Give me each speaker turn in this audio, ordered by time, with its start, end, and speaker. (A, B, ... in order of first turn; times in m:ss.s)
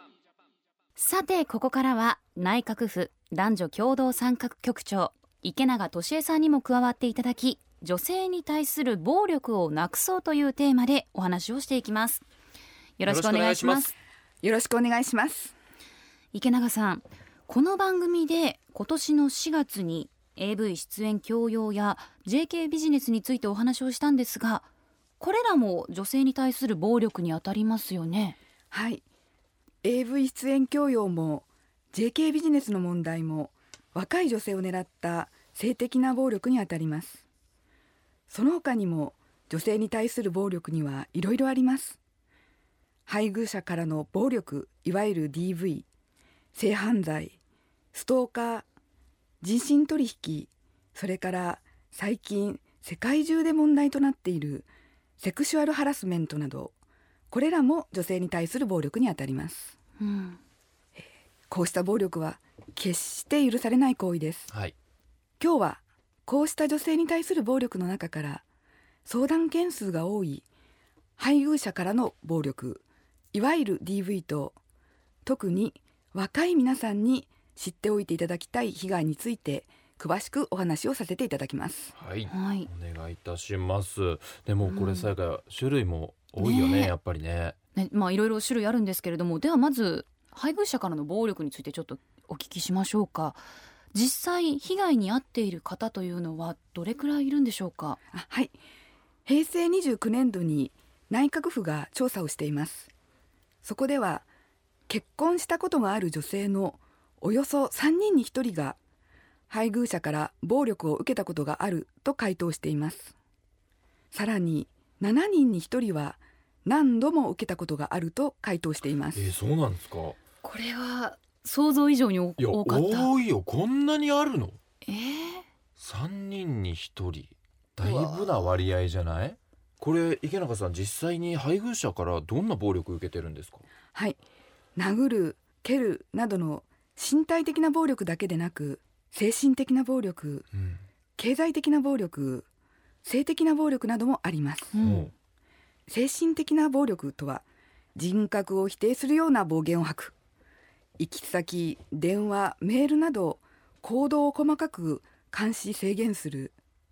0:01.0-0:12.2 A
0:13.0-0:13.9 A
0:13.0-0:13.9 B
0:14.4-0:15.5 C
0:16.3-0:24.7 A
0:25.2-0:28.4 A
0:28.7-0:29.0 C
0:29.8-0:37.2 C
0:38.3-0:42.0 C
0:43.1-0:45.9 C
0:46.6-0:47.4 C
0:47.9-0:48.6 C
0:49.4-0:54.7 C
0:55.2-0:56.8 C
0:57.3-0:59.7 C
1:00.0-1:00.4 A
1:01.0-1:04.5 C
1:05.4-1:08.4 C
1:09.0-1:10.4 C
1:11.2-1:14.6 C
1:15.2-1:21.9 C
1:21.9-1:27.6 B
1:22.3-1:22.7 A
1:24.7-1:25.1 A
1:26.4-1:26.9 A
1:27.8-1:33.4 A
1:33.9-1:38.0 A
1:38.1-1:38.6 C
1:39.3-1:42.9 C
1:43.6-1:44.3 C
1:44.9-1:48.8 C
1:49.5-1:53.1 C
1:54.1-1:59.3 C
1:59.1-2:00.2 B
2:00.4-2:03.1 A
2:02.4-2:04.6 B
2:04.9-2:05.4 A
2:05.8-2:13.6 B
2:07.8-2:08.3 A
2:13.9-2:14.2 C
2:14.8-2:20.5 C
2:20.6-2:20.8 B
2:21.2-2:22.5 C
2:23.0-2:24.8 C
2:24.7-2:25.1 A
2:24.8-2:25.1 B
2:25.9-2:27.4 C
2:28.0-2:30.1 C
2:31.0-2:36.5 C